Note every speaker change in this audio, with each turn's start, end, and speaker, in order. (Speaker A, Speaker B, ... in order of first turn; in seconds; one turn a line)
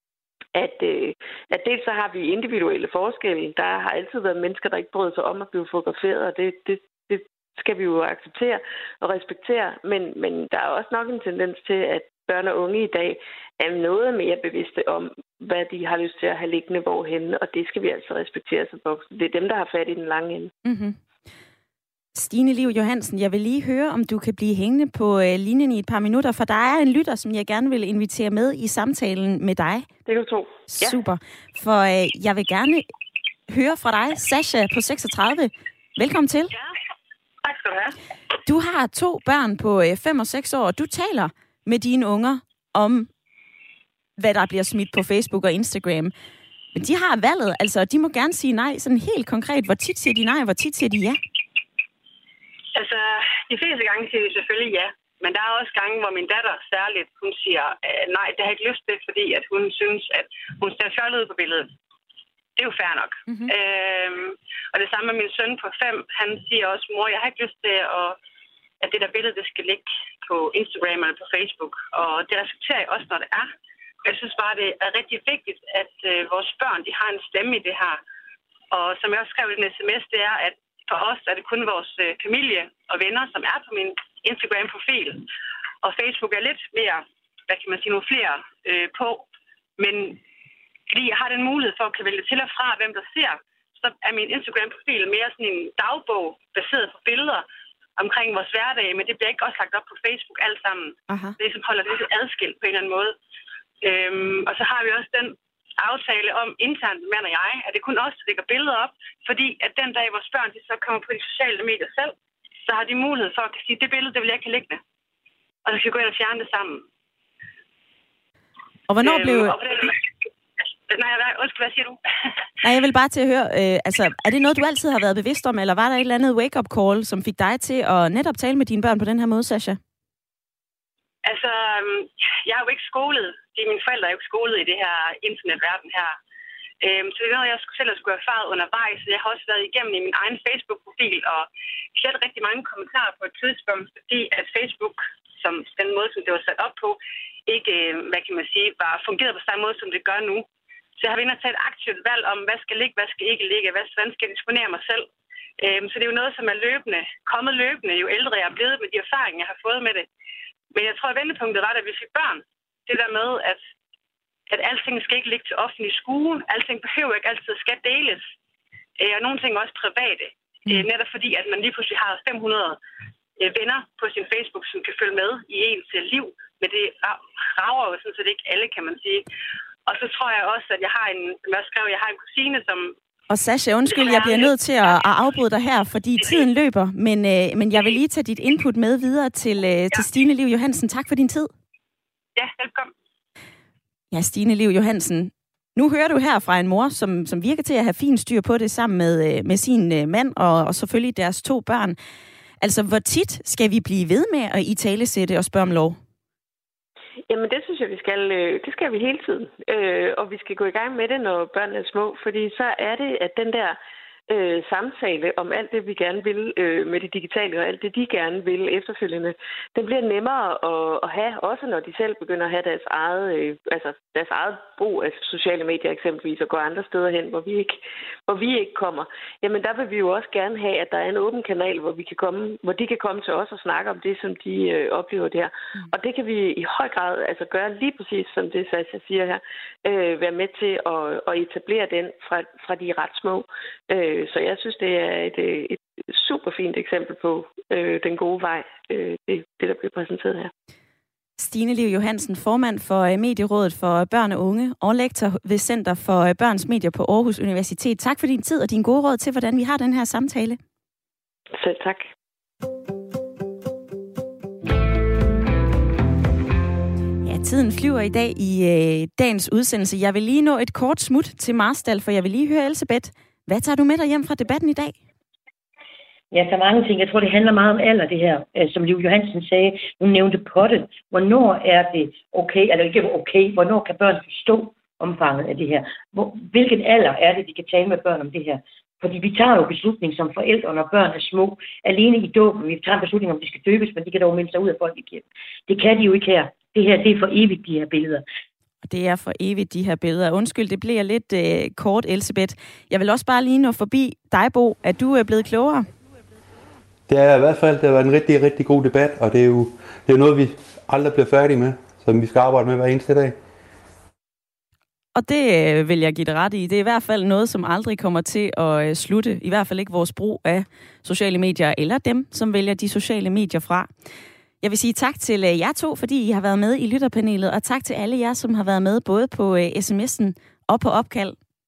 Speaker A: 0.5-20.5
Speaker B: 20.6-21.0
Speaker B: 22.1-29.9
Speaker A: 30.1-30.9
Speaker B: 30.7-32.9
Speaker B: 33.5-36.5
Speaker C: 37.4-37.9
Speaker B: 38.5-43.1
Speaker B: 44.2-46.1
Speaker B: 46.7-51.2
Speaker C: 52.7-61.7
Speaker C: 62.6-68.2
Speaker C: 68.8-73.5
Speaker C: 74.0-78.0
Speaker C: 78.7-85.2
Speaker C: 85.8-89.3
Speaker C: 89.8-90.2
Speaker C: 90.9-97.5
Speaker C: 98.0-103.1
Speaker B: 101.1-101.3
Speaker C: 103.8-112.1
Speaker C: 112.7-114.8
Speaker C: 115.6-116.8
Speaker B: 118.9-119.6
Speaker C: 119.0-120.0
Speaker C: 120.9-122.0
Speaker B: 122.6-129.8
Speaker C: 131.2-136.2
Speaker C: 136.8-150.4
Speaker C: 151.0-155.1
Speaker C: 155.6-160.1
Speaker C: 160.7-163.6
Speaker C: 164.5-168.3
Speaker C: 169.0-172.8
Speaker C: 173.4-179.2
Speaker C: 179.8-182.9
Speaker B: 183.3-191.5
Speaker C: 183.9-184.5
Speaker C: 192.3-192.9
Speaker B: 194.1-201.9
Speaker B: 202.6-206.0
Speaker A: 207.3-213.8
Speaker A: 214.3-250.5
Speaker B: 251.4-260.6
Speaker A: 261.6-262.1
Speaker B: 267.2-275.0
Speaker D: 276.3-298.2
Speaker B: 298.8-305.9
Speaker E: 307.1-313.3
Speaker B: 315.1-323.9
Speaker B: 324.6-331.4